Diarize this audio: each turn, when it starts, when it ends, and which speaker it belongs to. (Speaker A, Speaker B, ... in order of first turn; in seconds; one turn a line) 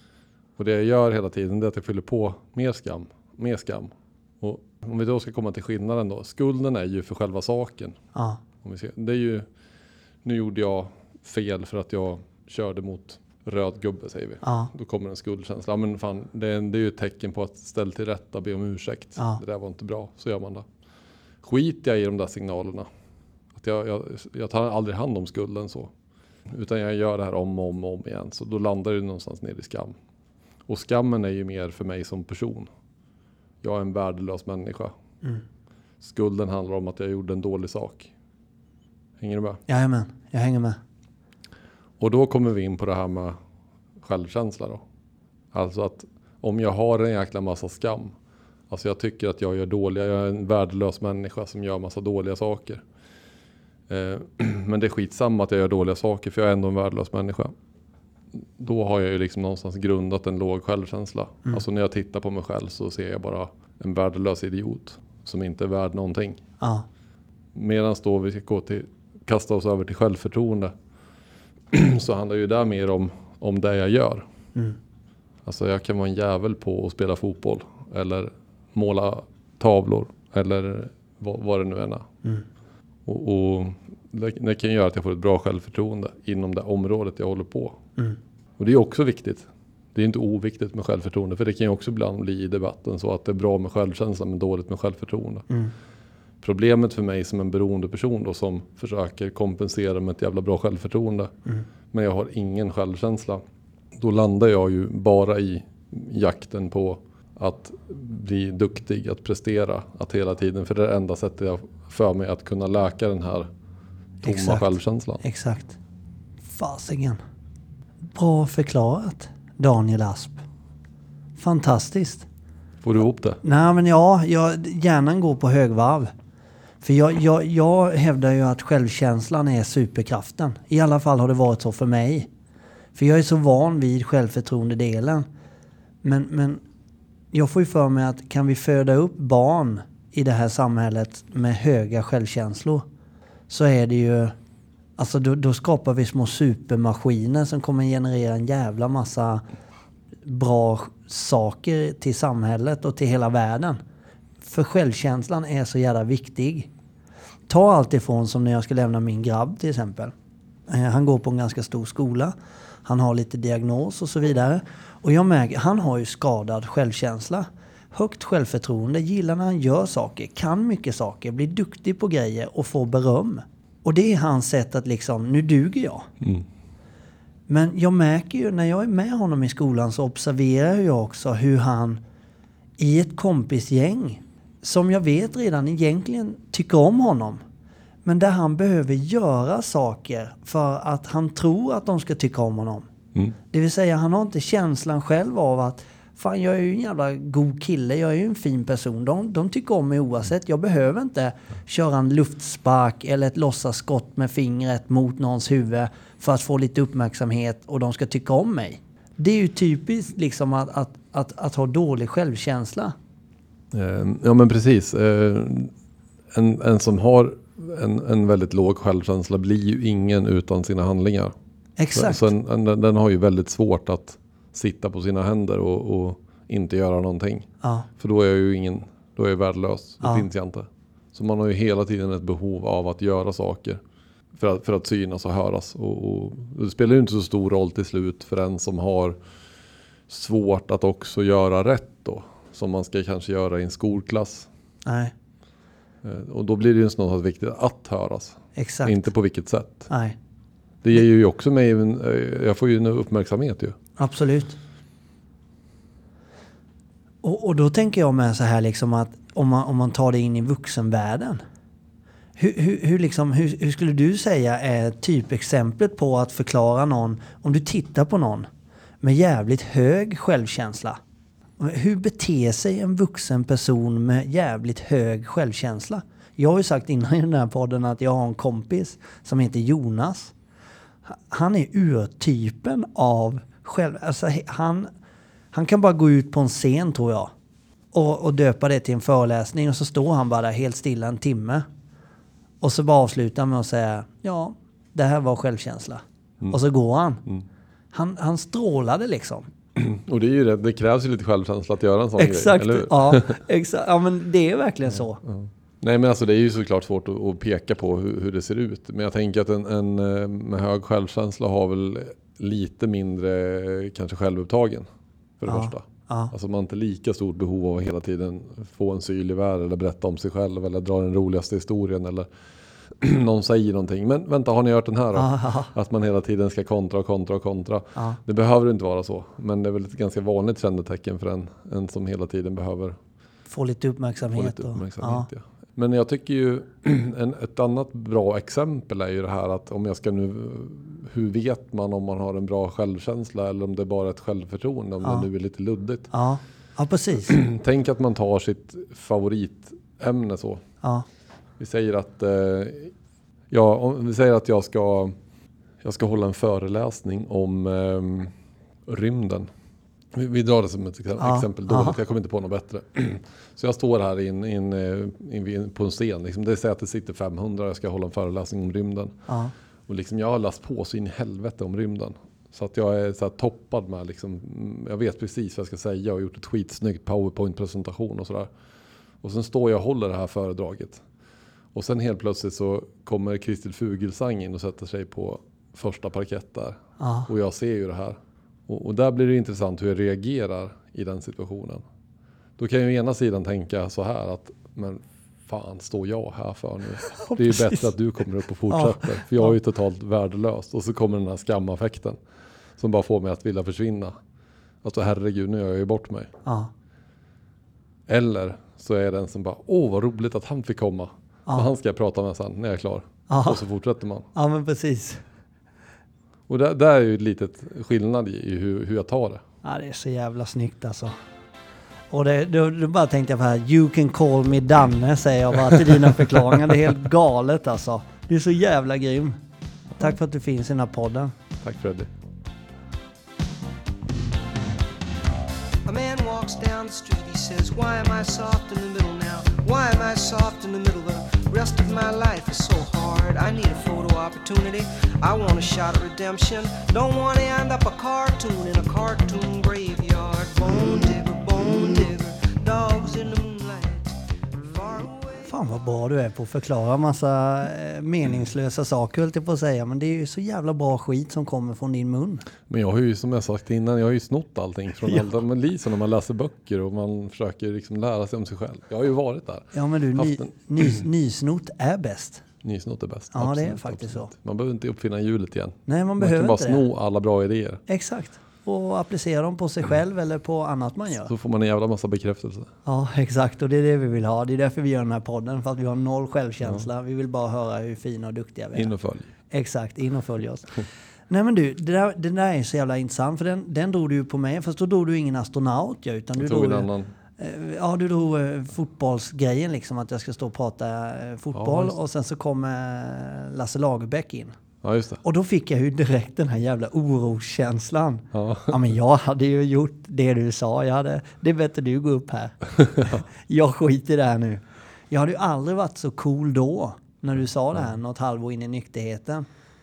Speaker A: 0.6-8.0
Speaker B: 8.2-8.4
Speaker A: 8.6-9.5
Speaker A: 10.2-20.7
Speaker B: 14.4-14.7
Speaker A: 21.4-22.9
Speaker A: 23.5-25.9
Speaker A: 26.5-30.0
Speaker A: 30.7-32.7
Speaker A: 33.6-34.9
Speaker A: 36.0-38.1
Speaker A: 39.2-39.6
Speaker B: 39.7-40.8
Speaker A: 42.0-43.4
Speaker A: 44.0-44.8
Speaker A: 45.5-48.1
Speaker A: 48.7-52.8
Speaker A: 53.9-57.5
Speaker A: 58.6-66.4
Speaker B: 66.6-66.9
Speaker A: 67.5-70.7
Speaker A: 71.7-74.2
Speaker A: 75.5-82.1
Speaker A: 83.1-87.8
Speaker A: 88.6-95.5
Speaker A: 96.4-101.3
Speaker A: 101.9-103.4
Speaker A: 104.0-113.5
Speaker B: 114.2-114.7
Speaker A: 114.2-115.2
Speaker B: 115.2-115.8
Speaker B: 116.5-117.2
Speaker B: 118.2-120.4
Speaker B: 121.4-122.2
Speaker A: 122.8-123.4
Speaker B: 123.4-126.1
Speaker B: 126.8-132.3
Speaker B: 133.0-135.2
Speaker B: 136.0-136.6
Speaker B: 137.3-142.8
Speaker B: 143.5-144.3
Speaker B: 145.0-149.4
Speaker B: 150.2-153.8
Speaker B: 154.4-156.7
Speaker B: 157.5-160.1
Speaker B: 160.7-162.3
Speaker B: 162.8-176.1
Speaker A: 176.2-176.5
Speaker B: 177.5-182.0
Speaker B: 182.8-187.4
Speaker B: 188.1-192.9
Speaker B: 193.5-212.9
Speaker A: 213.7-215.7
Speaker A: 216.3-221.3
Speaker B: 221.8-222.2
Speaker A: 221.9-233.8
Speaker B: 227.6-227.9
Speaker A: 234.4-239.2
Speaker A: 240.1-244.5
Speaker B: 244.9-245.1
Speaker A: 246.0-249.9
Speaker B: 248.6-249.1
Speaker B: 249.9-250.2
Speaker A: 250.8-253.8
Speaker B: 254.0-254.6
Speaker B: 257.2-261.4
Speaker B: 262.4-268.5
Speaker B: 269.0-271.0
Speaker B: 271.6-280.3
Speaker B: 281.1-284.9
Speaker B: 285.5-287.3
Speaker B: 287.9-291.7
Speaker B: 292.6-297.2
Speaker B: 297.9-299.5
Speaker A: 299.8-303.4
Speaker B: 302.2-305.2
Speaker A: 305.2-314.9
Speaker A: 315.4-322.3
Speaker B: 315.5-316.3
Speaker A: 323.0-333.0
Speaker B: 325.1-325.7
Speaker B: 333.5-335.3
Speaker A: 334.3-346.1
Speaker B: 346.1-347.4
Speaker A: 347.3-350.6
Speaker A: 351.6-352.9
Speaker A: 353.5-355.1
Speaker A: 355.8-358.3
Speaker A: 358.9-359.5
Speaker A: 360.1-369.2
Speaker B: 361.2-362.0
Speaker B: 369.3-369.5
Speaker A: 369.9-378.5
Speaker A: 379.2-381.0
Speaker A: 381.7-391.8
Speaker B: 387.0-387.3
Speaker A: 392.6-402.2
Speaker B: 397.1-397.9
Speaker B: 398.7-399.5
Speaker A: 402.8-404.2
Speaker A: 404.8-406.3
Speaker B: 406.4-406.7
Speaker A: 408.1-414.3
Speaker B: 413.3-413.6
Speaker B: 414.4-415.2
Speaker A: 416.5-419.4
Speaker B: 419.6-421.1
Speaker B: 422.1-429.4
Speaker B: 430.0-431.3
Speaker A: 431.6-432.1
Speaker C: 435.9-455.5
Speaker B: 455.5-462.4
Speaker A: 462.7-470.5
Speaker B: 469.7-472.4
Speaker A: 472.6-477.8
Speaker B: 473.3-474.3
Speaker B: 475.9-476.8
Speaker B: 477.9-481.3
Speaker A: 481.3-482.7
Speaker B: 482.9-488.9
Speaker A: 488.8-489.3
Speaker B: 489.5-496.9
Speaker A: 496.4-497.1
Speaker B: 497.4-504.6
Speaker A: 501.5-502.0
Speaker A: 504.8-505.2
Speaker B: 505.2-519.5
Speaker A: 508.3-508.8